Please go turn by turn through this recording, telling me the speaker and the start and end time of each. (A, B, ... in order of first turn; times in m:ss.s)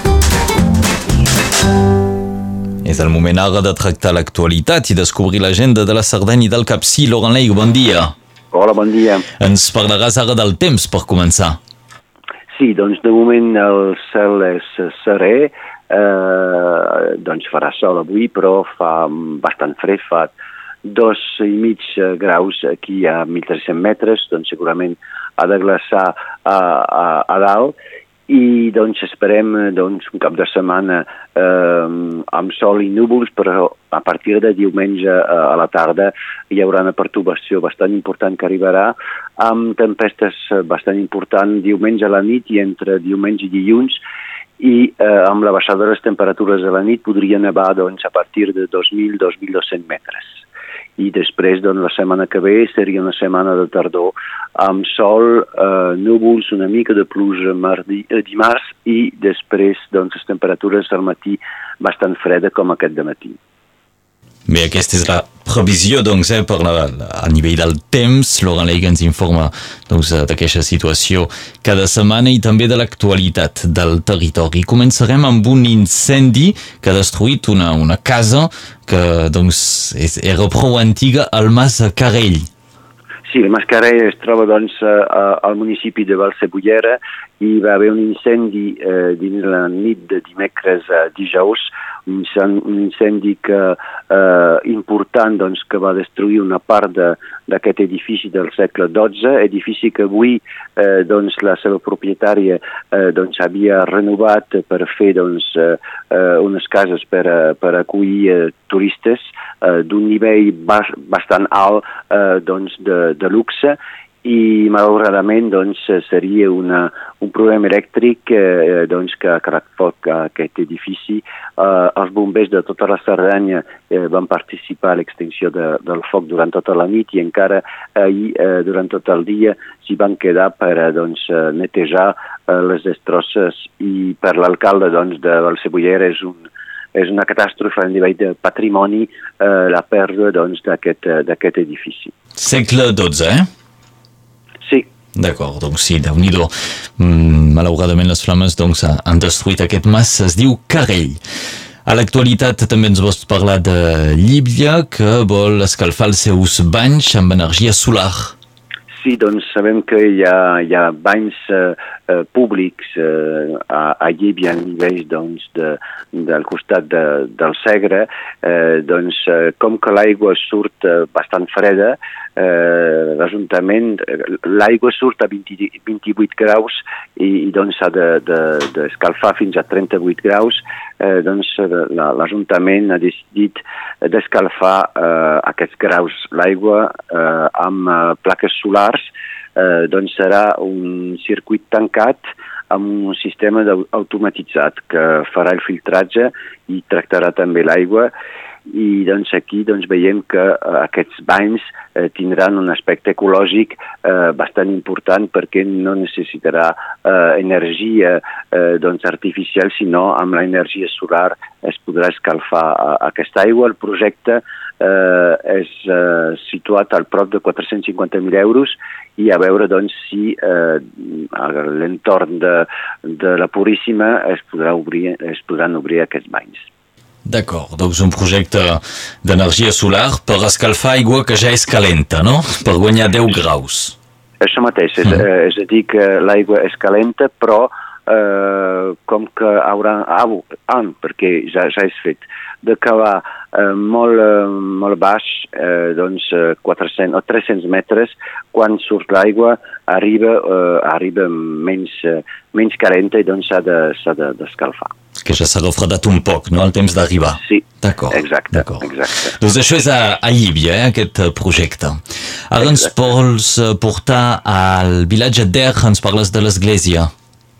0:02.8-0:08.1 A
0:08.5-0:09.2 B
0:09.4-0:11.6 A
0:12.5-0:27.7 B
0:28.3-0:44.0 B
0:44.6-0:50.4 B
0:51.0-1:03.4 B
1:04.5-1:22.5 A
1:23.3-2:22.1 B
2:22.4-2:23.5 A
2:24.6-2:24.9 B
2:25.2-2:31.2 A
2:31.8-2:38.3 A
2:38.9-3:18.1 B
3:18.7-3:46.7 B
3:47.2-3:53.9 A
3:54.4-4:14.9 B
4:15.2-4:22.0 A
4:17.4-4:19.4 B
4:22.5-4:27.1 A